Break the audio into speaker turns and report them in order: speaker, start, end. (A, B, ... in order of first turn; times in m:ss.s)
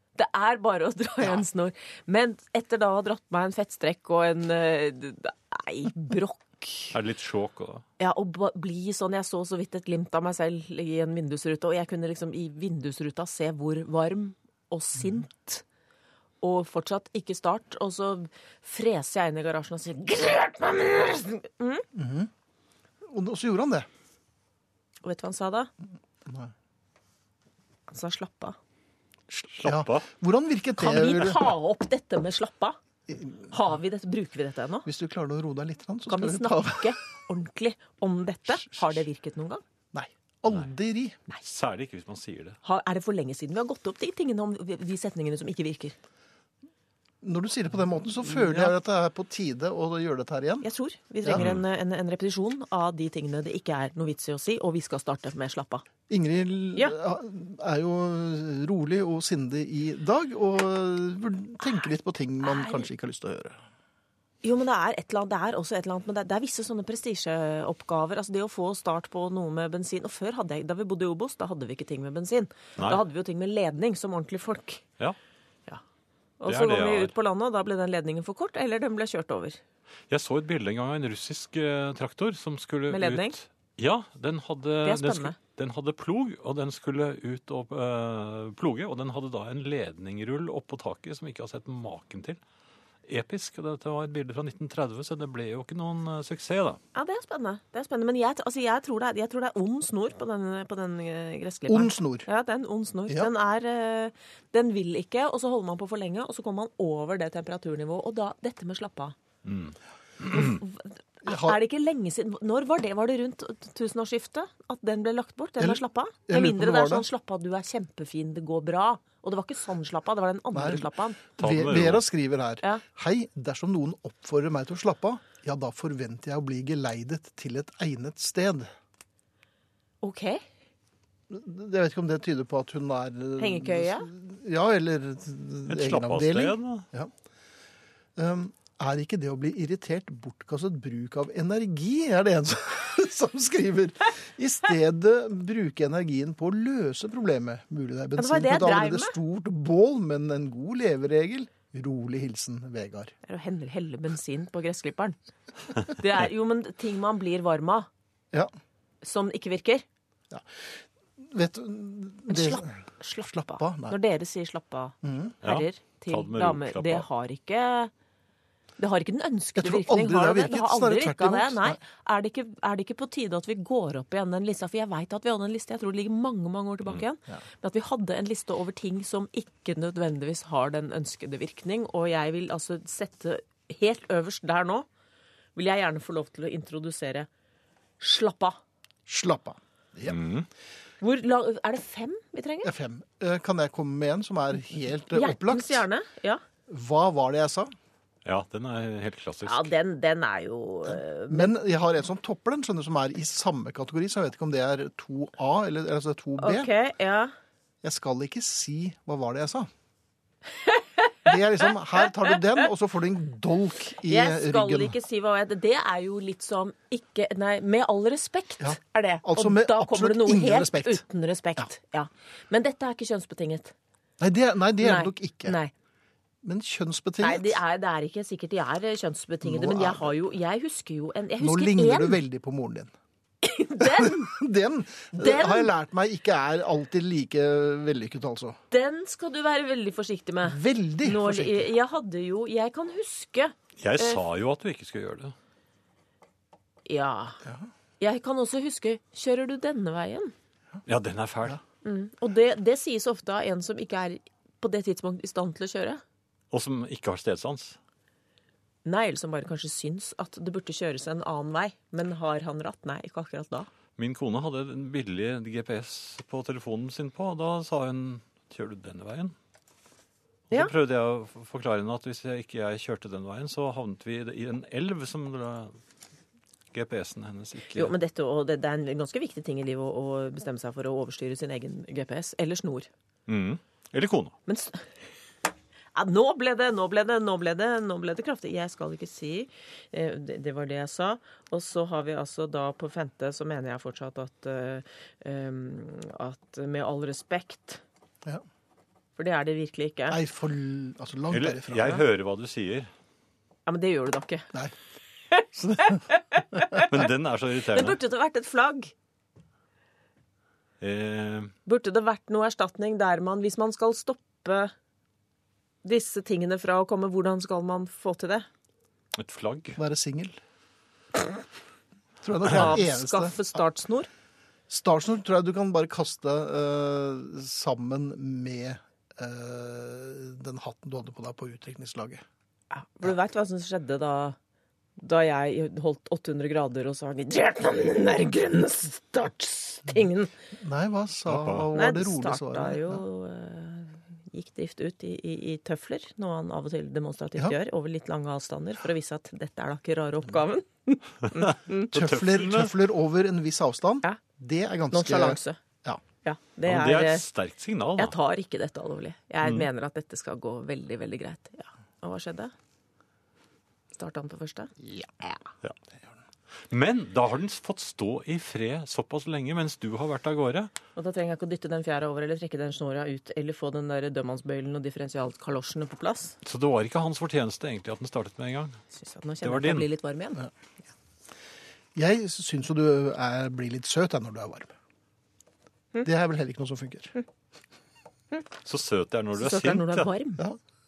0:00.2-0:06.9 A
0:06.9-0:07.8 B
0:08.0-0:15.6 A
0:16.4-0:21.8 A
0:21.9-0:22.3 C
0:23.0-0:23.9 C
0:25.0-0:25.7 A
0:26.3-0:26.5 C
0:27.9-0:28.6 A
0:29.3-0:31.5 C
0:29.6-0:30.1 B
0:30.8-0:32.8 A
0:33.1-0:33.5 C
0:33.5-0:34.9 A
0:34.8-0:37.0 C
0:36.1-0:39.6 A
0:39.9-0:41.2 C
0:41.4-0:42.6 B
0:42.6-0:46.0 A
0:47.2-0:50.7 C
0:48.5-0:48.7 B
0:50.6-0:55.9 A
0:51.3-0:51.6 B
0:56.1-1:03.6 C
1:02.4-1:02.9 A
1:04.4-1:14.8 A
1:12.8-1:13.0 B
1:16.4-1:19.6 A
1:16.5-1:17.1 B
1:20.1-1:32.4 B
1:22.9-1:23.4 A
1:24.8-1:25.4 A
1:33.1-1:36.8 B
1:36.9-1:49.2 A
1:41.7-1:42.3 C
1:49.4-1:50.6 B
1:50.3-2:01.2 A
1:51.2-1:51.6 C
1:55.6-1:57.0 C
2:00.5-2:00.9 C
2:01.4-2:02.0 B
2:01.4-2:08.7 C
2:10.0-2:10.4 A
2:11.3-2:17.1 C
2:13.4-2:14.1 A
2:15.7-2:16.9 B
2:18.2-2:33.1 C
2:28.2-2:29.2 A
2:33.2-2:35.2 A
2:35.8-2:37.9 A
2:39.0-2:39.8 A
2:40.3-2:42.7 C
2:42.3-2:47.9 A
2:43.2-2:44.0 C
2:45.0-2:45.3 C
2:45.4-2:47.1 B
2:48.8-3:04.9 A
2:49.6-2:51.8 C
3:05.6-3:07.3 A
3:08.0-3:08.6 A
3:09.1-3:10.2 C
3:10.1-3:10.5 B
3:11.0-3:12.7 A
3:12.6-3:15.8 C
3:15.1-3:16.4 A
3:16.7-3:17.7 C
3:18.2-3:19.7 B
3:19.5-3:21.5 A
3:20.8-3:26.7 C
3:26.4-3:27.3 A
3:27.8-3:29.7 C
3:30.7-3:31.3 A
3:31.2-3:35.0 C
3:34.1-3:43.7 A
3:38.6-3:41.0 C
3:44.2-3:45.6 C
3:44.8-3:45.7 A
3:46.4-3:47.6 C
3:47.2-3:52.2 A
3:49.4-3:50.3 C
3:51.4-3:52.9 C
3:53.4-3:54.4 A
3:53.8-3:58.6 C
3:55.1-3:55.7 A
3:58.7-4:04.2 A
4:00.4-4:01.7 C
4:03.8-4:05.3 B
4:06.9-4:07.4 A
4:07.4-4:07.7 C
4:08.0-4:10.3 A
4:10.9-4:11.6 B
4:11.8-4:16.0 A
4:16.5-4:17.8 B
4:18.8-4:23.7 A
4:24.0-4:29.4 B
4:30.5-4:35.8 B
4:36.7-4:37.9 B
4:37.7-4:42.9 A
4:43.3-4:44.4 B
4:44.5-4:44.9 A
4:46.0-4:57.8 A
4:59.2-5:00.2 A
5:00.1-5:02.0 C
5:01.3-5:02.9 B
5:03.7-5:04.5 A
5:05.3-5:07.0 A
5:05.6-5:06.0 C
5:06.6-5:06.8 C
5:06.9-5:08.0 B
5:07.7-5:08.9 A
5:10.8-5:11.5 B
5:11.7-5:14.7 A
5:15.8-5:18.5 A
5:19.2-5:19.8 B
5:19.8-5:20.4 C
5:22.2-5:23.4 C
5:22.5-5:24.1 A
5:24.7-5:32.2 C
5:32.7-5:34.4 A
5:35.0-5:40.3 A
5:40.6-5:43.0 C
5:41.3-5:41.7 B
5:41.7-5:51.9 A
5:51.2-5:52.7 B
5:51.9-5:56.0 C
5:54.9-5:55.6 A
5:56.2-5:57.2 A
5:56.6-5:58.2 B
5:58.0-6:02.5 A
5:59.4-5:59.7 B
6:04.0-6:05.4 A
6:06.7-6:10.7 B
6:11.0-6:16.4 A
6:16.4-6:18.8 B
6:18.9-6:20.4 A
6:19.4-6:19.9 B
6:22.0-6:24.7 C
6:26.0-6:27.1 C
6:28.6-6:30.1 B
6:29.4-6:30.4 A